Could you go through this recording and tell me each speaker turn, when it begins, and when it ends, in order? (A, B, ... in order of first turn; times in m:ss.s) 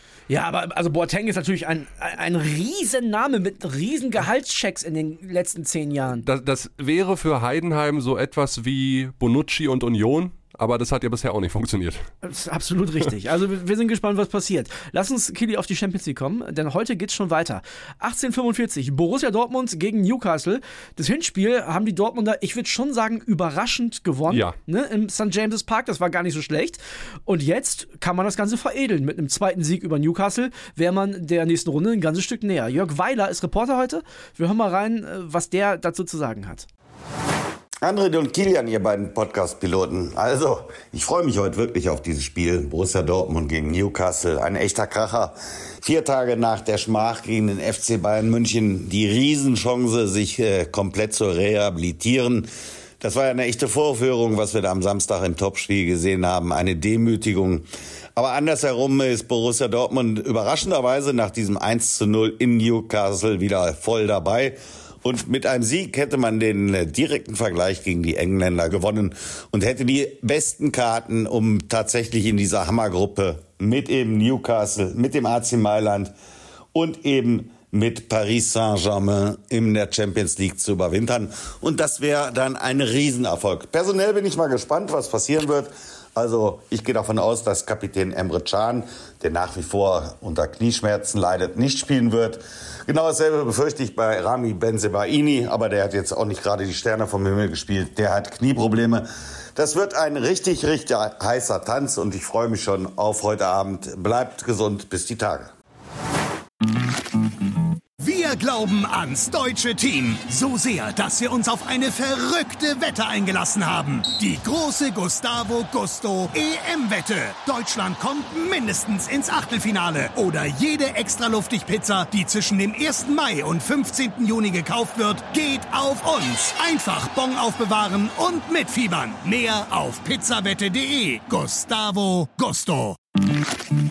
0:00.3-0:06.2 A
0:06.2-0:12.0 B
0:12.2-0:36.7 A
0:24.3-0:24.6 B
0:37.8-0:52.5 C
0:53.0-0:57.6 C
0:58.2-1:16.1 C
1:16.7-1:45.5 C
1:48.0-2:12.9 D